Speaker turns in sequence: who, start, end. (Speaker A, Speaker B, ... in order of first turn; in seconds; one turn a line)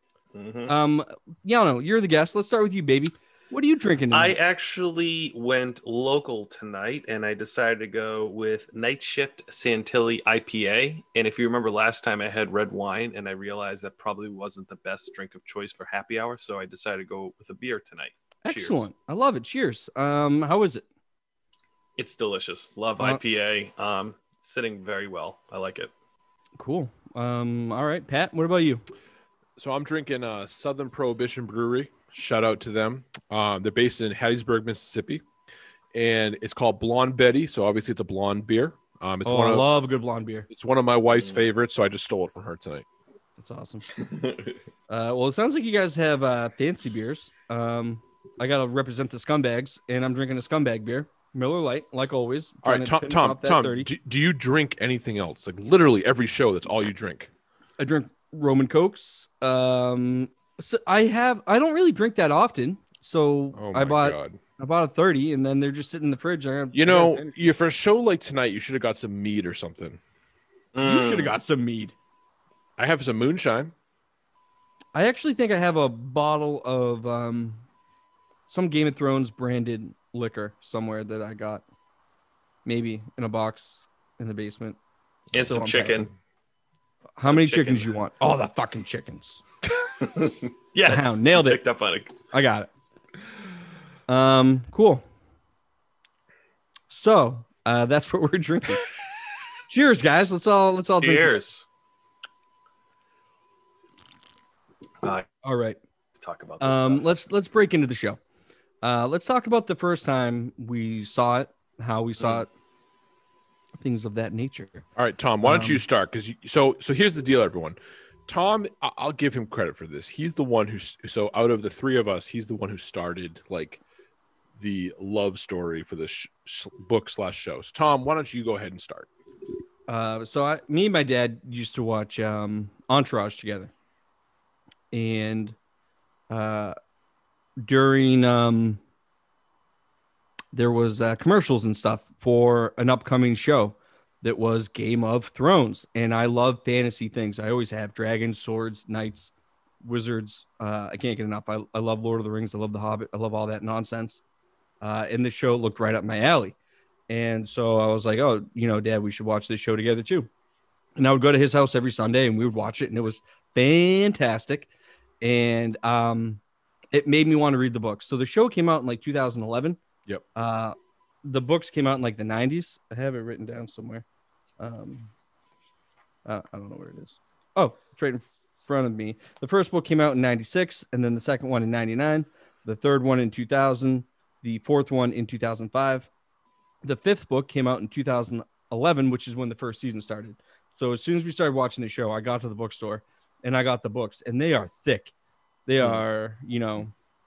Speaker A: 0.3-0.7
Speaker B: 0.7-4.4
Speaker A: 4.1-18.8
Speaker B: 18.4-20.8
Speaker A: 22.0-25.9
Speaker B: 26.6-28.8
Speaker C: 29.6-35.2
Speaker C: 35.9-39.7
Speaker B: 39.2-40.5
Speaker C: 40.5-42.9
Speaker B: 43.4-44.0
Speaker B: 44.9-53.9
Speaker C: 52.6-57.3
Speaker B: 57.8-67.5
Speaker C: 63.5-64.4
Speaker C: 66.7-70.0
Speaker A: 70.8-71.4
Speaker B: 70.8-71.9
Speaker C: 72.8-73.7
Speaker B: 75.0-77.6
Speaker B: 78.5-81.6
Speaker B: 82.7-84.8
Speaker A: 85.3-86.1
Speaker B: 85.3-86.1
Speaker B: 87.2-89.4
Speaker A: 87.2-87.9
Speaker A: 90.0-92.2
Speaker B: 90.8-91.6
Speaker B: 92.3-92.7
Speaker B: 94.1-95.0
Speaker B: 96.9-98.8
Speaker B: 99.7-101.4
Speaker A: 101.0-101.7
Speaker B: 105.4-105.8
Speaker A: 106.2-107.0
Speaker B: 106.6-108.2
Speaker B: 108.8-112.5
Speaker B: 113.8-114.8
Speaker C: 115.0-123.8
Speaker B: 115.4-115.8
Speaker C: 124.6-129.1
Speaker B: 129.9-133.7
Speaker B: 134.9-135.6
Speaker B: 136.3-136.8
Speaker B: 137.6-138.8
Speaker B: 140.5-149.3
Speaker B: 149.8-154.2
Speaker B: 154.8-156.6
Speaker B: 157.1-160.3
Speaker B: 161.0-164.7
Speaker B: 165.2-166.4
Speaker B: 166.9-169.8
Speaker B: 170.3-174.1
Speaker B: 174.6-175.1
Speaker B: 176.2-186.1
Speaker B: 186.8-195.1
Speaker B: 195.7-196.9